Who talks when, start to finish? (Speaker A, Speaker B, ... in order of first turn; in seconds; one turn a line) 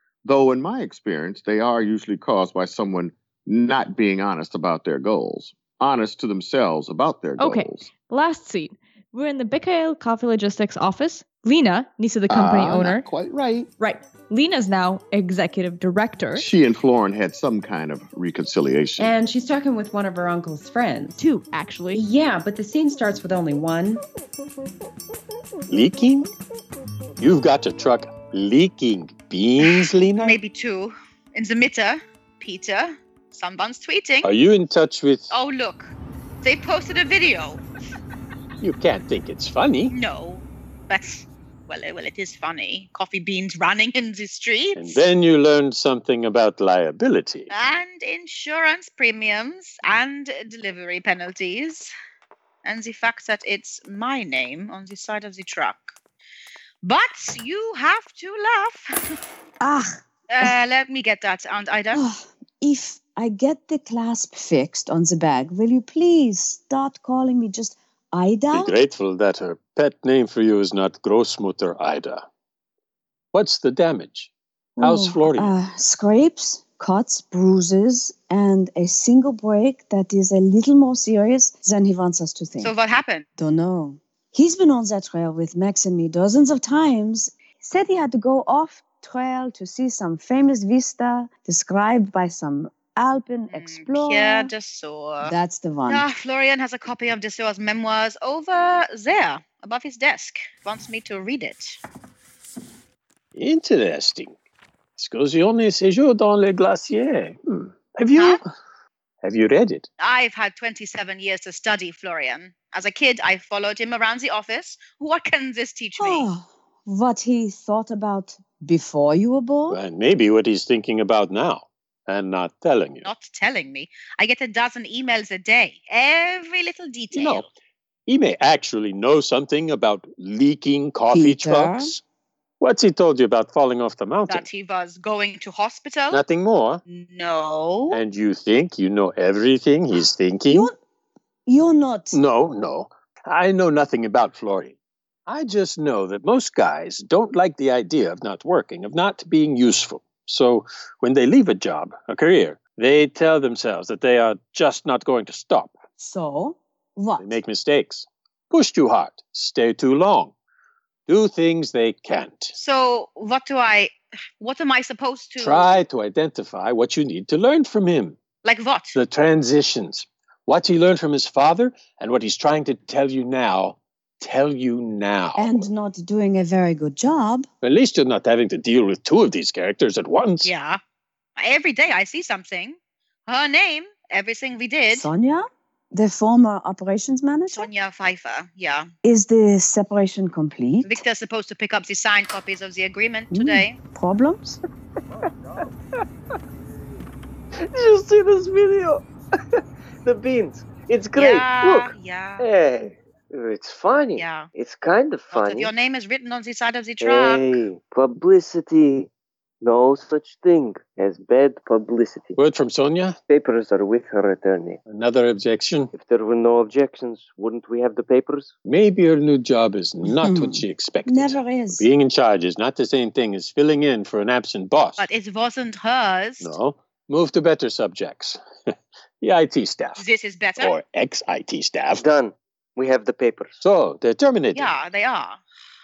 Speaker A: 0.2-7.9
Speaker B: 7.4-13.1
Speaker A: 12.3-13.7
Speaker B: 13.8-16.5
Speaker A: 16.4-19.2
Speaker C: 19.0-21.2
Speaker B: 21.2-22.0
Speaker C: 22.0-24.0
Speaker D: 25.7-26.3
Speaker D: 27.2-30.4
Speaker E: 29.6-34.3
Speaker D: 34.2-35.3
Speaker E: 35.3-37.6
Speaker D: 38.6-40.0
Speaker E: 39.9-45.1
Speaker D: 44.8-47.5
Speaker E: 47.5-51.9
Speaker E: 52.6-55.9
Speaker E: 56.8-58.9
Speaker F: 59.6-60.5
Speaker E: 60.3-62.0
Speaker F: 61.9-68.8
Speaker D: 68.5-72.2
Speaker D: 73.3-75.5
Speaker F: 74.8-82.7
Speaker E: 82.6-83.3
Speaker F: 83.4-94.5
Speaker E: 93.5-95.3
Speaker F: 95.2-96.1
Speaker E: 95.9-101.8
Speaker D: 103.3-104.3
Speaker D: 105.0-108.4
Speaker E: 108.1-108.4
Speaker D: 109.2-109.9
Speaker E: 110.0-116.3
Speaker F: 116.0-119.8
Speaker D: 119.7-123.1
Speaker E: 123.0-127.5
Speaker D: 127.1-127.5
Speaker D: 128.1-132.0
Speaker F: 131.1-132.0
Speaker D: 132.6-134.5
Speaker E: 134.3-136.2
Speaker D: 136.1-136.8
Speaker E: 136.9-138.0
Speaker D: 137.9-140.7
Speaker F: 140.5-140.8
Speaker F: 141.5-142.2
Speaker D: 142.1-144.8
Speaker D: 145.3-155.8
Speaker F: 156.0-157.4
Speaker D: 157.2-160.3
Speaker D: 161.1-162.5
Speaker E: 162.5-165.8
Speaker D: 165.4-168.2
Speaker E: 168.4-169.0
Speaker D: 168.9-175.7
Speaker F: 175.3-177.5
Speaker D: 177.6-180.5
Speaker E: 180.4-180.8
Speaker E: 181.4-185.1
Speaker F: 184.9-187.7
Speaker E: 187.5-188.9
Speaker F: 189.0-191.0
Speaker E: 190.8-193.8
Speaker F: 193.3-194.6
Speaker G: 197.6-199.0
Speaker G: 199.6-205.7
Speaker E: 201.2-202.5
Speaker E: 204.2-204.5
Speaker E: 205.3-207.6
Speaker G: 207.0-209.1
Speaker G: 209.6-212.4
Speaker D: 212.3-213.2
Speaker G: 213.3-214.8
Speaker D: 214.8-215.9
Speaker G: 215.9-218.5
Speaker D: 218.7-225.1
Speaker F: 220.0-221.9
Speaker E: 225.0-226.6
Speaker D: 226.4-228.4
Speaker D: 229.2-230.1
Speaker E: 230.0-230.8
Speaker D: 230.6-232.1
Speaker G: 231.9-233.5
Speaker D: 233.6-234.7
Speaker E: 234.5-235.4